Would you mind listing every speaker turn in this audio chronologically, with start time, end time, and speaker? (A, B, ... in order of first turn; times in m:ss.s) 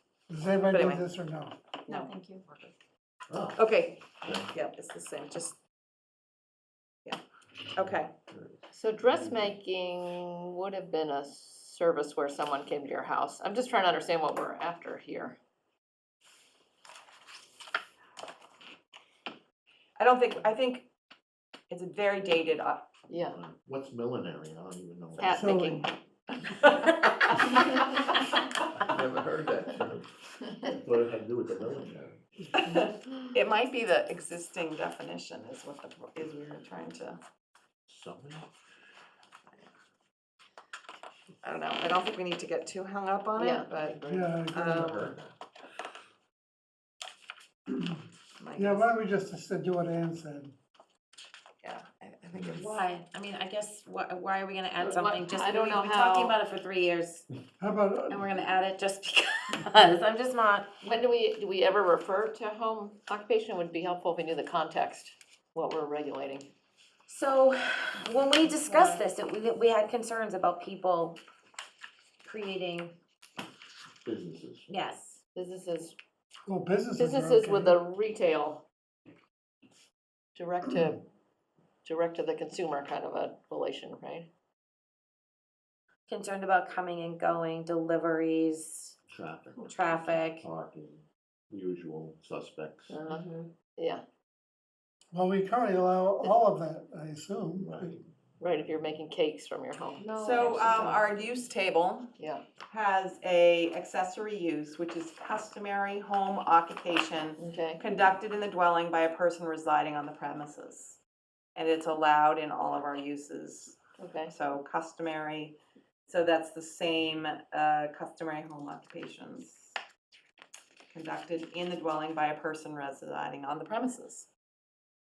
0:00.3-0:01.6 A
0:00.7-0:01.0 B
0:01.9-0:02.4 C
0:01.9-0:02.7 B
0:03.3-0:03.6 D
0:03.5-0:05.6 B
0:04.2-0:04.5 D
0:07.7-0:08.1 B
0:08.3-0:09.6 D
0:08.7-0:15.4 E
0:20.0-0:20.9 B
0:21.7-0:22.8 B
0:23.1-0:23.3 E
0:23.3-0:25.6 D
0:25.2-0:25.8 E
0:25.3-0:25.9 A
0:26.7-0:27.6 B
0:28.8-0:30.0 D
0:30.6-0:32.2 D
0:32.6-0:37.2 B
0:37.9-0:38.5 D
0:41.4-0:45.1 B
0:43.4-0:44.2 E
0:44.1-0:44.9 A
0:44.6-0:45.3 D
0:48.4-0:48.9 B
0:48.5-0:50.5 A
0:51.6-0:52.8 B
0:52.5-0:57.3 C
0:54.8-0:56.4 E
0:57.6-0:58.2 A
0:58.1-1:00.7 C
1:00.8-1:06.5 E
1:07.1-1:11.2 C
1:12.2-1:13.0 C
1:14.0-1:14.7 D
1:14.7-1:15.2 C
1:15.3-1:16.0 E
1:16.4-1:17.8 A
1:17.0-1:18.6 E
1:20.4-1:21.0 E
1:21.8-1:24.3 E
1:26.1-1:29.0 C
1:29.1-1:33.1 D
1:29.6-1:30.5 C
1:32.9-1:34.0 E
1:35.1-1:37.9 A
1:37.6-1:38.0 D
1:38.4-1:41.0 E
1:40.1-1:42.2 B
1:42.7-1:51.0 B
1:47.4-1:47.8 E
1:51.6-1:59.7 B
1:54.0-1:54.3 E
2:00.9-2:04.3 B